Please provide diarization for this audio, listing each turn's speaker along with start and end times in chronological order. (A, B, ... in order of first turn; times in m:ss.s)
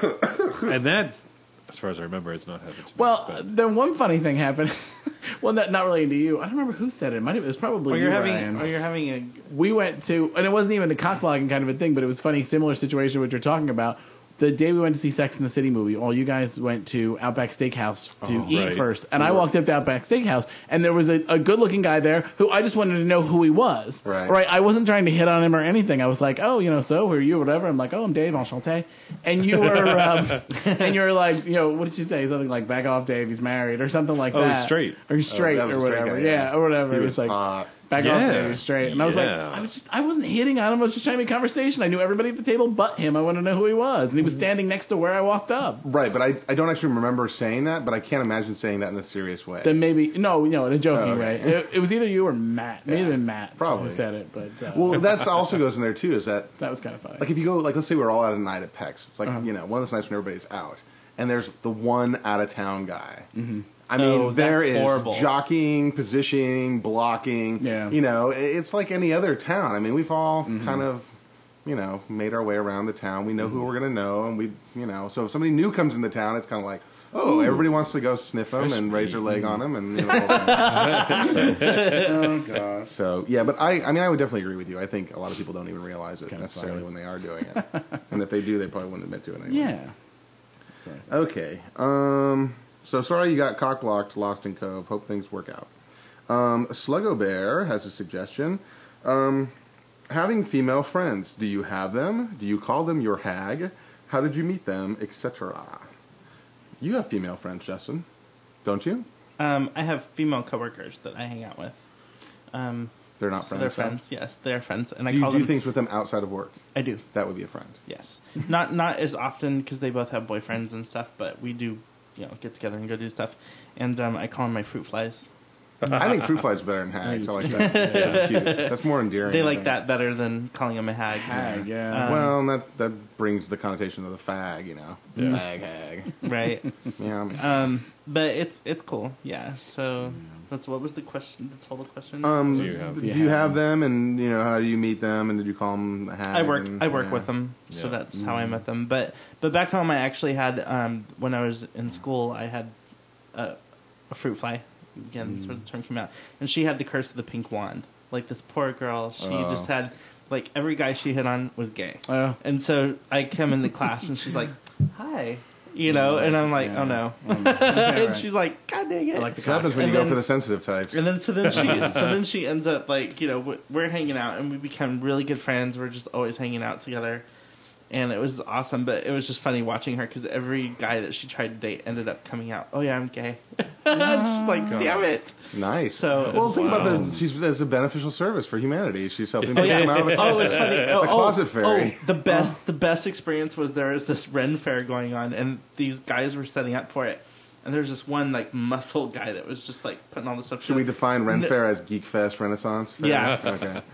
0:00.5-0:03.4 A
0:03.0-0:08.7 B
0:07.9-0:09.4 C
0:09.5-0:45.8 B
0:18.2-0:18.5 D
0:18.5-0:18.8 A
0:24.0-0:24.4 D
0:34.3-0:35.0 A
0:35.3-0:38.4 D
0:38.0-0:39.7 A
0:45.8-0:49.8 D
0:49.6-0:55.1 B
0:50.9-0:51.7 D
0:52.9-0:54.0 D
0:54.7-0:56.5 D
0:56.6-0:57.3 B
0:57.2-1:03.3 D
1:03.4-1:03.7 B
1:03.9-1:11.1 D
1:04.0-1:05.3 C
1:07.6-1:08.0 B
1:10.5-1:10.8 B
1:11.6-1:21.8 D
1:18.6-1:19.2 A
1:20.0-1:22.4 C
1:20.6-1:22.1 A
1:21.9-1:22.9 B
1:22.9-1:29.7 D
1:26.2-1:26.8 B
1:29.5-1:29.9 B
1:31.1-1:35.7 D
1:36.3-1:39.5 D
1:40.1-1:45.9 D
1:46.8-1:48.1 D
1:48.6-1:49.1 D
1:49.4-1:51.8 C
1:52.5-1:55.6 C
1:53.2-1:54.0 D
1:55.1-1:56.6 D
1:56.8-1:57.0 C
1:57.1-1:57.8 D
1:57.9-2:05.3 C
2:05.9-2:09.8 D
2:07.0-2:08.4 B
2:07.4-2:12.4 C
2:11.2-2:12.2 B
2:12.0-2:16.2 D
2:16.2-2:16.7 C
2:17.0-2:17.4 D
2:17.4-2:22.7 C
2:22.2-2:27.3 D
2:22.6-2:23.0 A
2:23.0-2:23.6 B
2:26.3-2:32.7 C
2:27.7-2:28.0 A
2:28.2-2:28.5 B
2:34.1-2:50.3 C
2:39.2-2:39.7 D
2:42.1-2:42.4 B
2:45.9-2:48.3 B
2:49.2-2:50.0 B
2:49.4-2:51.8 D
2:50.9-2:57.2 C
2:57.9-3:05.4 C
3:03.9-3:04.8 B
3:04.7-3:05.1 A
3:05.5-3:12.1 D
3:05.9-3:07.0 C
3:06.3-3:07.2 A
3:09.4-3:11.0 A
3:09.6-3:21.5 C
3:20.6-3:23.8 D
3:23.0-3:23.6 C